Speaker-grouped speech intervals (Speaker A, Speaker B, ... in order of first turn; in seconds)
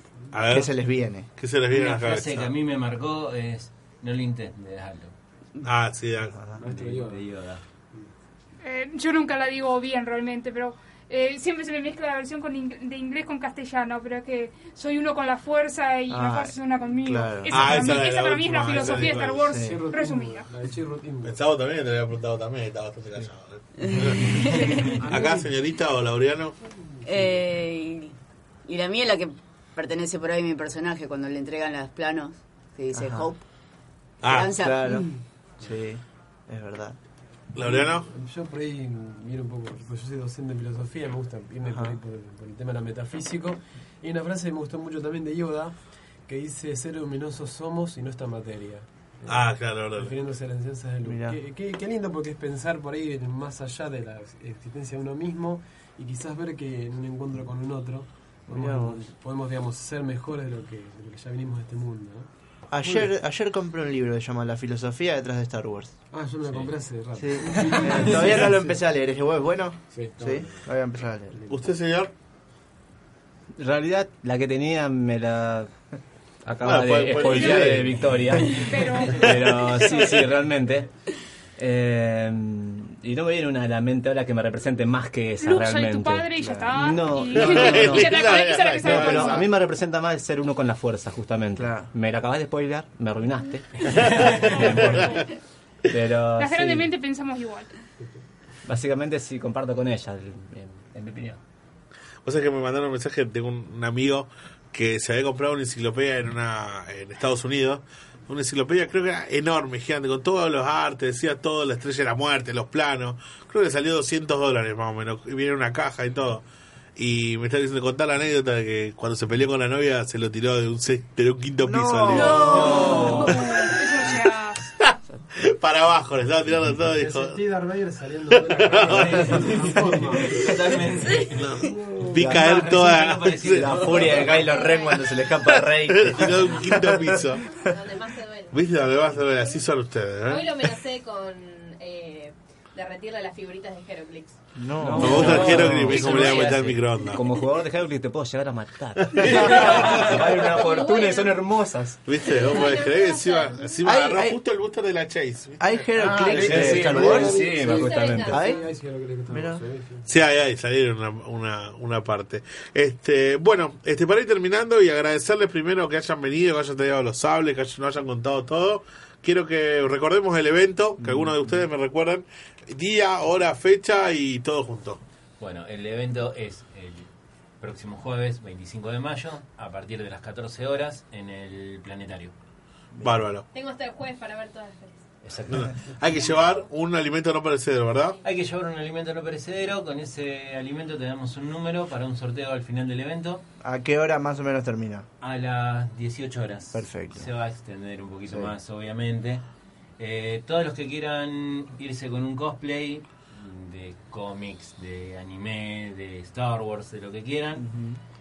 Speaker A: 0.3-0.7, 1.4-2.5, 5.6-6.4, 17.5-19.6, 21.2-26.6, 34.2-34.5, 37.5-38.1, 49.3-50.1, 71.5-72.1, 76.6-78.2, 87.4-89.5, 93.8-95.2, 102.2-116.4, 117.0-123.5, 124.8-127.4, 128.4-129.7, 131.3-134.1, 135.4-137.4, 138.5-140.6, 145.0-147.2, 149.1-150.1, 152.1-156.6, 160.1-175.0, 183.0-183.5, 185.5-188.2
Speaker B: 0.5-1.3, 16.1-17.9, 19.4-19.9, 33.0-33.3, 34.5-37.0, 41.7-42.0, 51.0-51.4, 58.5-59.1, 62.7-65.9, 67.2-71.3, 91.6-91.9, 121.6-123.4, 132.1-132.8, 133.5-137.3, 144.8-145.9, 153.8-154.4, 155.6-157.6, 158.3-158.6, 159.3-159.6, 171.0-171.5, 193.6-195.1, 196.7-197.3, 207.6-208.0
Speaker C: 1.7-5.1, 6.6-7.6, 94.1-94.4, 122.3-123.4, 129.1-129.4, 130.3-131.6, 132.2-134.5, 175.4-177.1, 177.6-182.3, 185.2-185.8, 188.2-193.4, 195.2-199.4, 200.0-207.7
Speaker D: 6.6-7.3, 19.6-21.4, 25.0-25.5, 37.6-62.3, 62.8-63.1, 66.1-68.8, 69.9-70.7, 71.3-71.6, 126.8-132.2, 156.4-160.1
Speaker E: 8.6-20.5, 77.3-77.7, 78.5-79.3, 85.4-89.5, 94.6-95.2, 96.4-97.7, 122.4-124.6
Speaker F: 23.8-24.7, 27.1-28.1, 28.7-33.5, 34.2-35.0
Speaker G: 73.6-75.7, 76.5-80.9, 81.6-95.3, 95.9-96.9, 98.7-101.4, 144.7-152.0, 156.0-158.6
Speaker H: 134.3-135.1, 137.6-138.6, 140.3-144.4, 145.3-146.5, 149.5-151.4, 152.2-153.8, 157.1-158.7, 183.5-185.0, 186.2-186.6